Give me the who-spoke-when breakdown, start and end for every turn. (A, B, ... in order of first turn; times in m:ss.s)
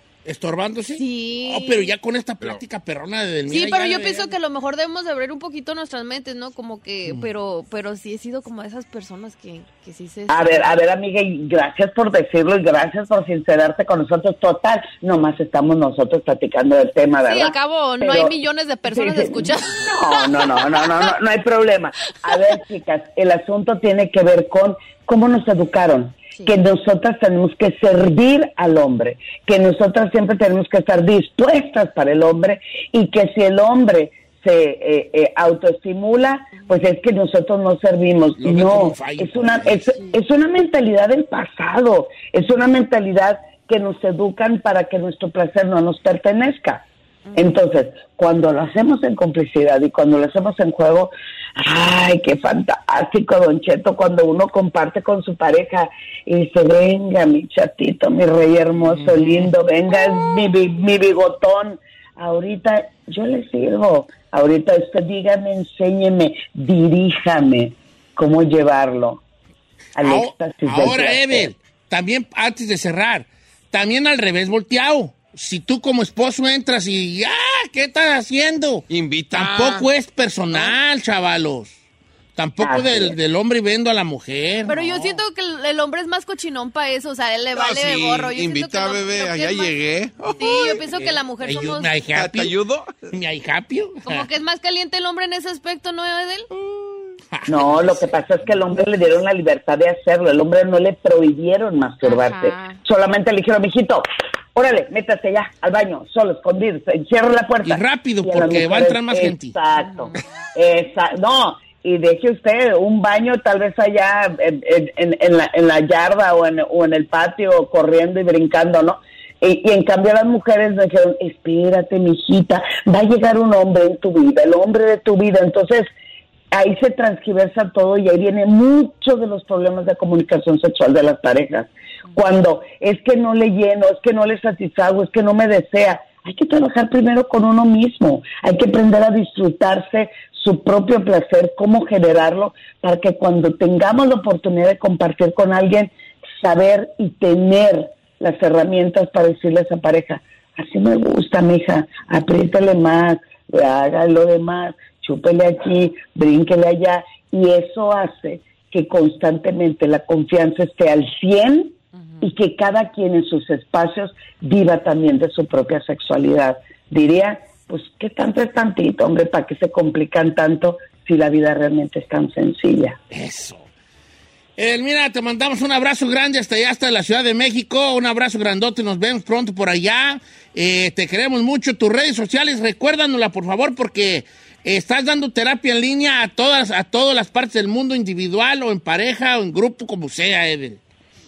0:00.2-0:04.3 A
0:01.0-0:01.9 B
0:03.5-0:10.8 B
0:10.3-0:18.4 C
0:17.2-0:21.2 B
0:18.9-1:09.2 C
0:22.3-0:22.6 B
0:38.4-0:39.8 A
1:10.0-1:11.5 C
1:10.0-1:21.7 A
1:18.9-1:19.9 D
1:22.4-1:25.1 A
1:22.6-1:23.2 C
1:24.7-1:29.7 B
1:27.5-1:30.8 D
1:30.4-1:31.9 B
1:31.4-1:32.5 A
1:32.2-1:33.1 D
1:33.1-1:34.3 A
1:34.1-1:36.5 B
1:37.3-1:38.0 A
1:37.5-2:05.9 C
1:42.0-1:42.8 B
1:47.6-1:49.5 A
1:49.8-1:50.1 B
2:06.5-2:53.0 C
2:53.1-2:53.7 A
2:54.6-3:10.8 A